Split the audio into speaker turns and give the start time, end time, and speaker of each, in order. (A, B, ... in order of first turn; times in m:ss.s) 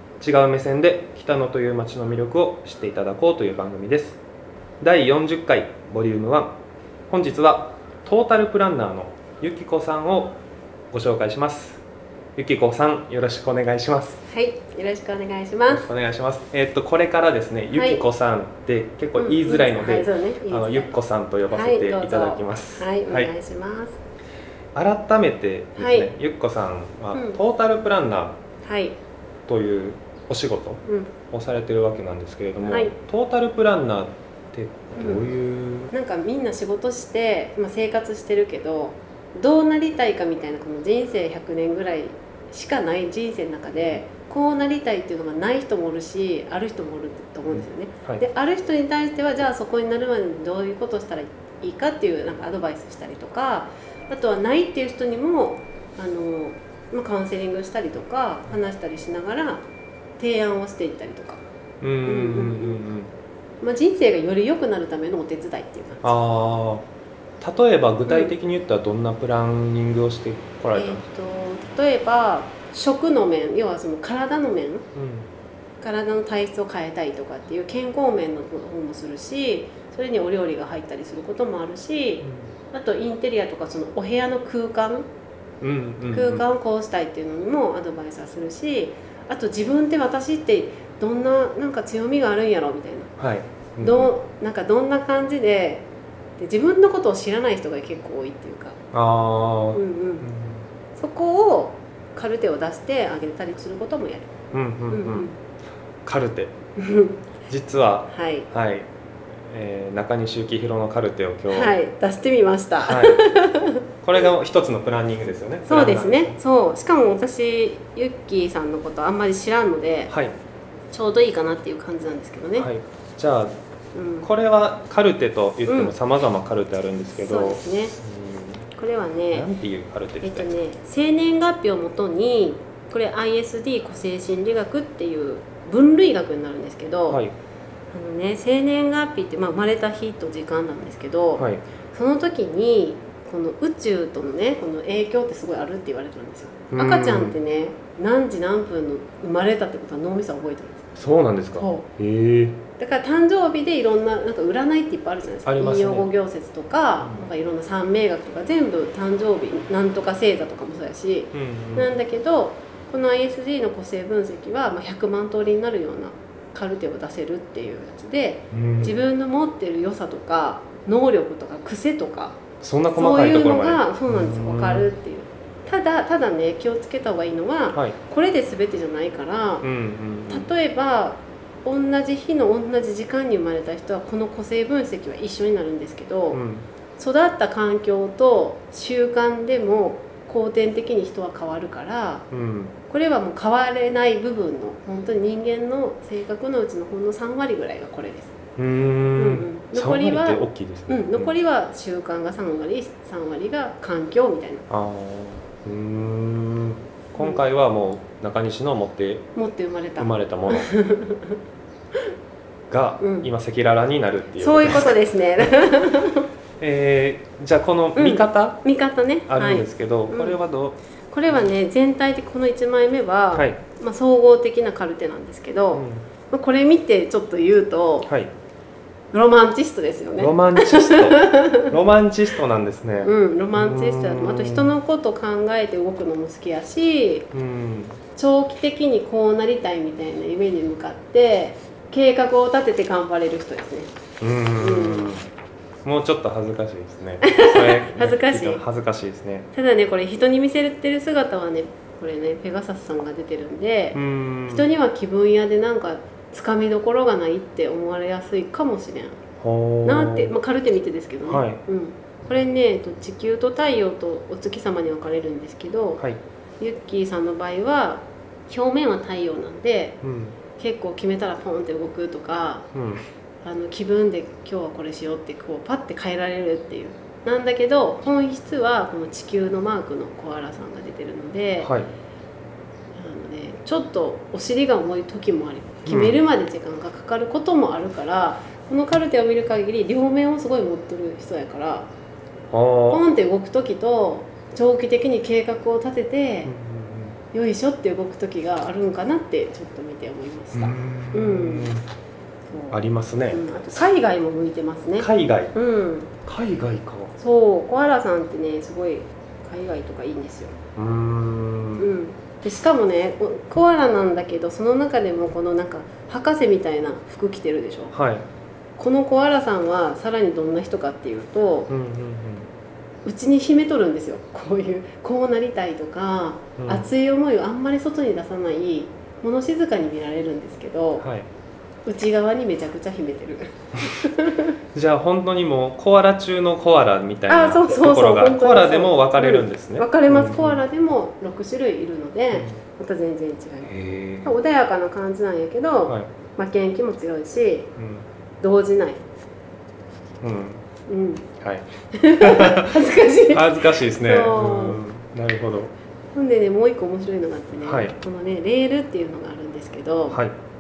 0:00.2-0:04.2 A
0:04.8-0:06.6 A
0:07.1-0:10.4 A
0:10.9-0:11.8 A
0:12.4-0:14.2 A
0:14.3-0:15.9 B
0:15.7-0:23.3 A
0:17.7-0:18.0 B
0:19.2-0:21.0 B
0:21.5-0:24.0 B
0:24.8-0:28.4 A
0:25.8-0:26.1 B
0:27.1-0:27.4 B
0:28.6-0:29.0 B
0:29.5-0:35.9 A
0:30.9-0:31.1 B
0:32.7-0:32.9 B
0:35.0-0:35.3 B
0:35.9-0:59.6 B
1:00.2-1:01.4 B
1:01.8-1:03.1 A
1:02.0-1:02.8 B
1:03.6-1:06.2 B
1:06.0-1:06.9 A
1:07.4-1:11.0 A
1:08.1-1:08.3 B
1:10.8-1:14.9 B
1:14.9-1:15.3 A
1:15.8-1:25.1 B
1:22.2-1:22.5 A
1:25.6-1:26.4 A
1:26.1-1:33.2 B
1:33.2-1:34.1 A
1:33.8-1:35.9 B
1:36.4-1:38.8 B
1:38.9-1:40.7 A
1:39.7-1:40.3 B
1:41.0-1:44.3 B
1:44.5-1:45.3 A
1:44.9-1:45.4 B
1:46.0-1:46.5 A
1:46.8-1:47.2 B
1:47.5-1:48.9 A
1:48.1-1:48.5 B
1:49.5-1:51.8 A
1:51.5-1:53.8 B
1:52.8-1:53.2 A
1:54.0-1:56.4 A
1:55.7-2:00.1 B
2:00.1-2:00.4 A
2:00.9-2:02.7 B
2:02.6-2:03.6 A
2:03.9-2:04.3 B
2:04.2-2:08.7 A
2:05.7-2:06.0 B
2:07.2-2:08.0 B
2:08.7-2:09.5 B
2:09.3-2:10.5 A
2:10.2-2:17.2 B
2:17.1-2:17.3 A
2:17.9-2:31.0 B
2:21.4-2:21.6 A
2:26.7-2:27.4 A
2:31.0-2:32.6 A
2:31.6-2:31.9 B
2:32.8-2:59.7 B
2:35.5-2:36.1 A
2:41.3-2:41.9 A
2:48.5-2:49.0 A
2:52.6-2:54.9 A
2:57.7-2:58.0 A
2:59.6-3:00.5 A
3:00.3-3:06.4 B
3:06.3-3:06.7 A
3:07.0-3:12.3 B
3:12.3-3:12.7 A
3:12.9-3:18.3 B
3:18.6-3:21.3 A
3:19.2-3:24.7 B
3:24.7-3:29.2 A
3:29.4-3:31.4 B
3:30.0-3:30.7 A
3:32.7-3:35.5 A
3:33.0-3:33.3 B
3:34.4-3:36.3 B
3:36.6-3:38.6 A
3:38.0-3:40.4 B
3:39.3-3:40.8 A
3:41.1-3:48.1 B
3:43.3-3:43.6 A
3:45.7-3:46.1 A
3:48.0-3:48.3 A
3:49.1-3:51.7 B
3:50.2-3:54.7 A
3:53.0-3:57.3 B
3:57.3-3:58.0 A
3:58.2-4:03.9 B
4:04.2-4:05.3 A
4:04.6-4:05.2 B
4:05.8-4:09.5 A
4:07.2-4:08.6 B
4:09.5-4:19.2 B
4:13.9-4:14.7 A
4:19.4-4:20.3 A
4:19.8-4:26.0 B
4:21.3-4:21.6 A
4:26.6-4:30.0 B
4:30.0-4:30.4 A
4:30.6-4:32.7 B
4:32.7-4:33.0 A
4:33.4-4:41.7 B
4:41.6-4:41.9 A
4:43.0-4:51.9 B
4:45.9-4:46.2 A
4:52.5-4:53.0 A
4:52.9-4:56.5 B
4:56.4-4:57.2 A
4:57.3-5:01.8 B
5:00.5-5:01.9 A
5:02.5-5:02.8 B
5:02.7-5:03.5 A
5:03.3-5:06.1 B
5:05.0-5:05.6 A
5:06.2-5:07.2 A
5:07.2-5:10.6 B
5:10.8-5:11.9 A
5:11.8-5:17.9 B
5:17.9-5:18.3 A
5:18.8-5:21.7 B
5:21.7-5:22.5 A
5:23.0-5:31.1 B
5:26.6-5:26.9 A
5:31.0-5:31.3 A
5:31.9-5:34.5 B
5:34.7-5:40.6 A
5:37.3-5:47.7 B
5:43.6-5:44.3 A
5:47.8-5:48.1 A
5:48.4-5:49.0 B
5:50.2-5:50.6 A
5:50.9-5:51.3 B
5:51.4-5:52.8 A
5:52.0-5:54.8 B
5:53.3-5:55.7 A
5:56.1-6:00.2 B
5:57.6-5:58.0 A
6:00.1-6:00.4 A